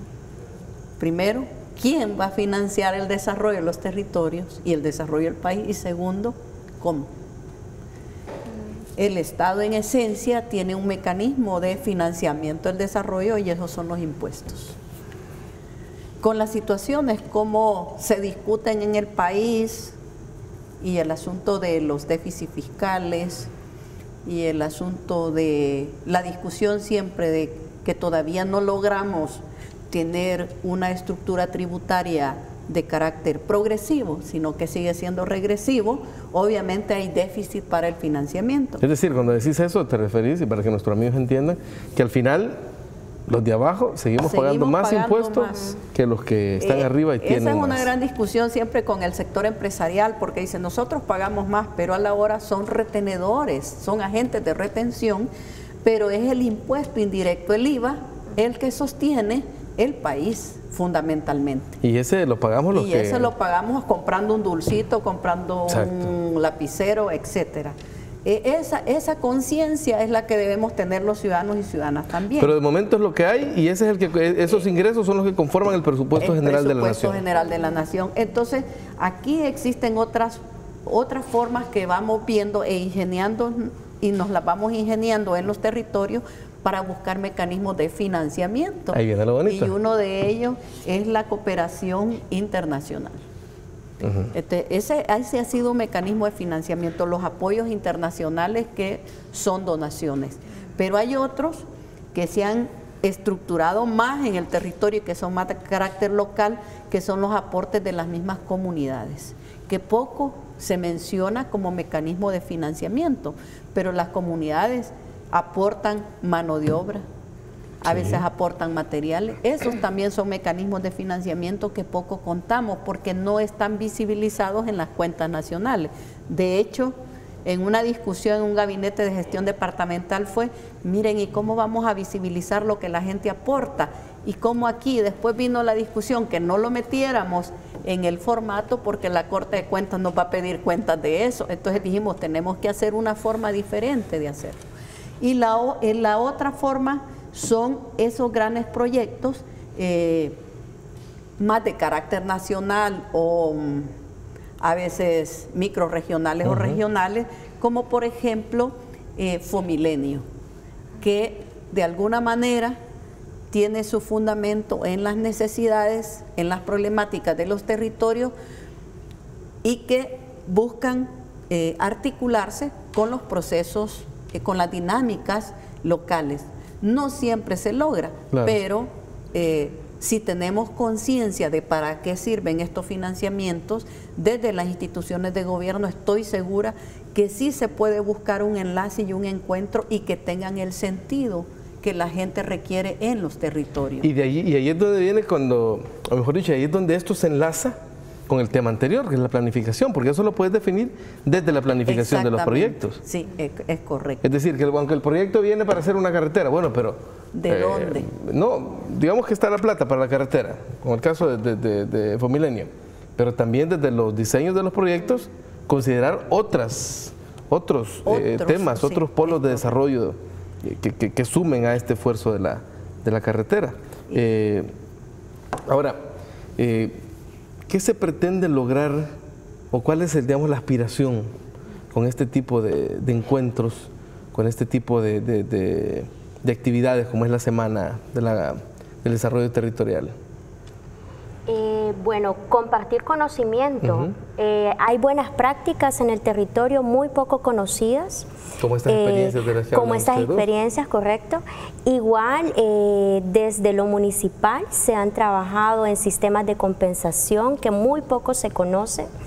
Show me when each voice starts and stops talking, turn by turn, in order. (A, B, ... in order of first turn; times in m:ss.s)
0:01.0-0:07.1 A
0:09.0-0:14.8 A
0:16.2-0:20.0 A
0:20.8-0:23.5 A
0:24.2-0:38.8 A
0:38.8-0:42.6 B
0:43.3-0:47.9 B
0:44.2-0:45.8 A
0:46.6-0:55.3 A
0:55.8-1:01.8 A
1:01.8-1:03.3 B
1:02.7-1:12.5 A
1:05.7-1:06.1 B
1:12.4-1:17.2 B
1:16.2-1:33.2 A
1:28.9-1:29.7 B
1:34.0-1:34.3 B
1:34.3-1:57.0 A
1:57.8-2:24.6 A
1:57.8-1:58.2 B
2:25.2-2:30.4 A
2:31.4-2:33.9 A
2:34.6-2:40.2 A
2:36.4-2:36.8 B
2:41.0-2:42.8 A
2:43.5-2:48.3 A
2:49.6-3:14.1 A
3:14.0-3:17.8 B
3:18.3-3:23.0 B
3:21.9-3:24.2 A
3:24.2-3:44.7 B
3:27.3-3:28.1 A
3:38.0-3:39.6 A
3:45.7-3:46.0 B
3:46.6-3:47.0 B
3:47.7-3:49.1 B
3:49.7-3:51.3 B
3:51.9-4:00.1 B
4:01.5-4:08.3 C
4:03.8-4:04.1 B
4:08.6-4:10.4 B
4:08.9-4:19.1 C